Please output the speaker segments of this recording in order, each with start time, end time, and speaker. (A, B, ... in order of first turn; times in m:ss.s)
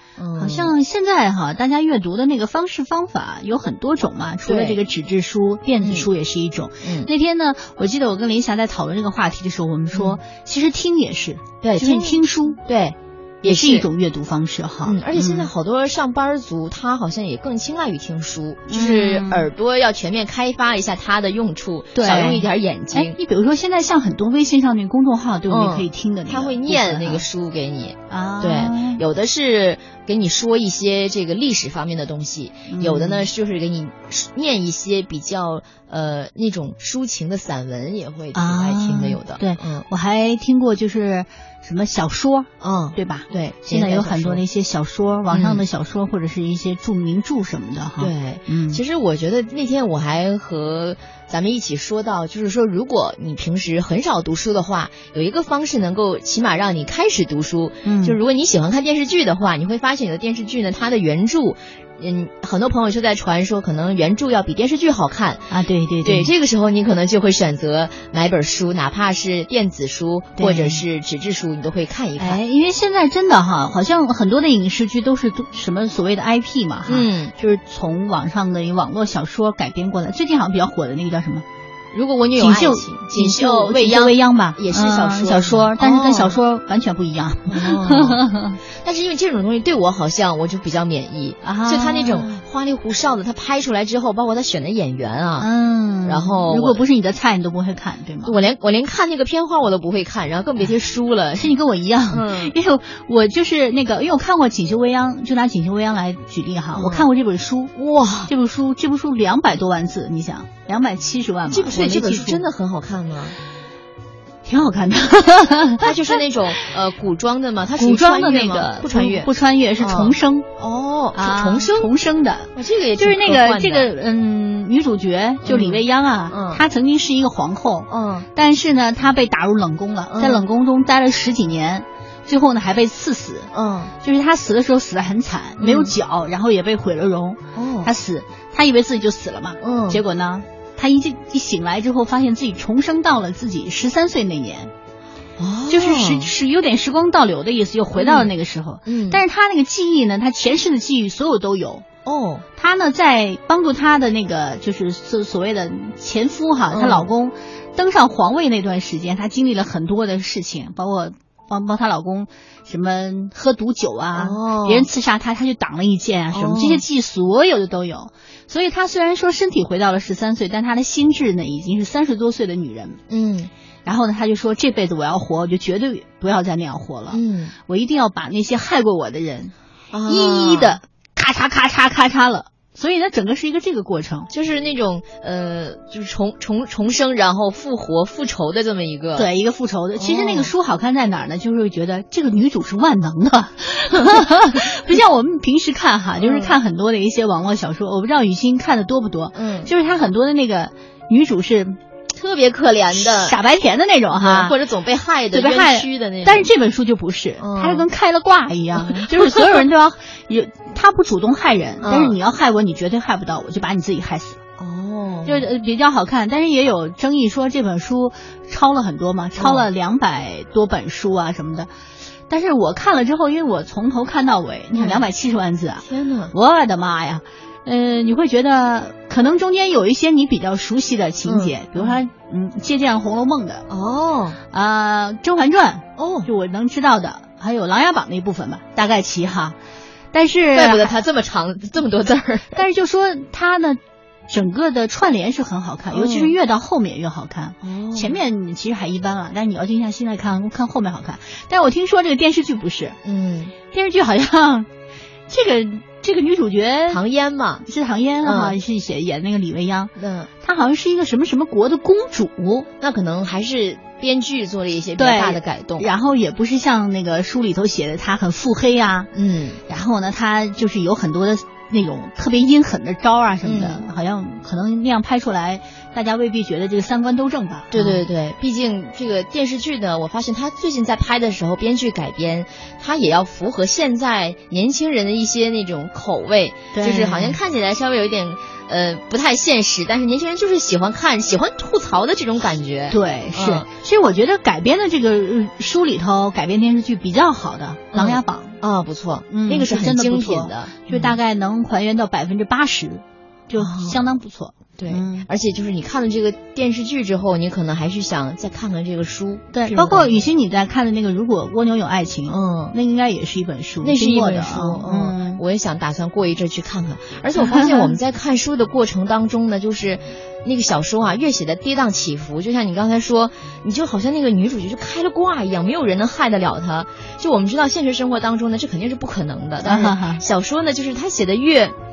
0:00.2-0:00.7 A
0:00.4-0:12.6 B
0:04.4-0:04.8 A
0:05.8-0:06.1 A
0:06.8-0:07.1 A
0:09.9-0:10.2 A
0:11.6-0:13.8 A
0:13.4-0:15.5 B
0:14.8-0:23.2 A
0:18.7-0:19.5 B
0:21.9-0:27.2 B
0:25.5-0:39.9 A
0:28.1-0:29.0 B
0:32.7-0:33.3 B
0:38.3-0:48.8 B
0:42.6-0:44.4 A
0:45.3-0:45.6 A
0:48.0-1:05.5 A
0:57.8-0:58.2 B
1:05.5-1:06.3 B
1:06.0-1:12.4 A
1:10.4-1:10.8 B
1:12.2-1:21.4 B
1:16.9-1:17.3 A
1:21.9-1:26.4 A
1:22.4-1:28.6 B
1:27.5-1:28.2 A
1:28.8-1:35.5 A
1:31.4-1:32.4 B
1:35.4-1:38.4 B
1:36.0-1:36.8 A
1:38.2-1:41.5 A
1:41.4-1:47.7 B
1:42.1-1:42.5 A
1:46.7-1:47.1 A
1:47.8-1:48.3 A
1:48.3-1:52.4 B
1:51.5-1:53.4 A
1:54.4-1:56.2 B
1:55.8-2:01.9 A
1:57.8-2:00.5 B
2:01.1-2:13.5 B
2:02.6-2:03.9 A
2:05.4-2:06.6 A
2:07.9-2:08.3 A
2:10.1-2:10.4 A
2:13.5-2:13.9 A
2:14.0-2:24.7 B
2:15.6-2:15.9 A
2:17.6-2:17.9 A
2:19.6-2:20.0 A
2:25.4-2:26.3 A
2:25.7-2:31.8 B
2:28.0-2:28.3 A
2:28.9-2:29.2 A
2:32.0-2:32.4 A
2:32.6-2:53.0 B
2:36.7-2:37.1 A
2:44.2-2:44.9 A
2:46.3-2:46.8 A
2:53.1-2:53.5 A
2:53.8-2:59.5 B
2:57.1-2:57.6 A
2:59.9-3:00.8 A
3:00.1-3:04.3 B
3:04.3-3:09.3 A
3:09.2-3:21.8 B
3:10.0-3:10.5 A
3:16.2-3:16.6 A
3:19.3-3:19.7 A
3:22.1-3:23.4 A
3:22.9-3:24.6 B
3:24.2-3:26.5 A
3:25.3-3:34.4 B
3:27.4-3:27.9 A
3:28.8-3:29.6 A
3:31.8-3:32.2 A
3:34.6-3:35.5 A
3:35.2-3:41.7 B
3:39.4-3:39.7 A
3:42.3-3:53.7 B
3:44.7-3:45.1 A
3:45.8-3:46.3 A
3:51.3-3:52.0 A
3:53.7-3:54.4 A
3:54.5-3:59.6 B
3:56.0-3:56.3 A
4:00.1-4:01.0 B
4:00.5-4:02.6 A
4:02.5-4:13.0 B
4:05.9-4:06.4 A
4:07.6-4:08.2 A
4:13.0-4:13.5 A
4:13.7-4:14.7 B
4:15.3-4:17.0 B
4:16.9-4:17.7 A
4:17.7-4:19.9 B
4:18.2-4:18.6 A
4:20.0-4:20.3 A
4:20.4-4:22.7 B
4:22.8-4:25.9 A
4:25.0-4:29.1 B
4:29.1-4:29.6 A
4:29.7-4:38.0 B
4:33.4-4:33.8 A
4:37.7-4:53.7 A
4:46.7-4:47.4 B
4:52.9-4:58.6 B
4:57.9-5:01.2 A
4:59.3-5:05.3 B
5:03.6-5:04.0 A
5:04.8-5:10.1 A
5:09.5-5:15.4 B
5:12.3-5:12.8 A
5:13.8-5:31.8 A
5:17.3-5:18.0 B
5:29.6-5:30.2 B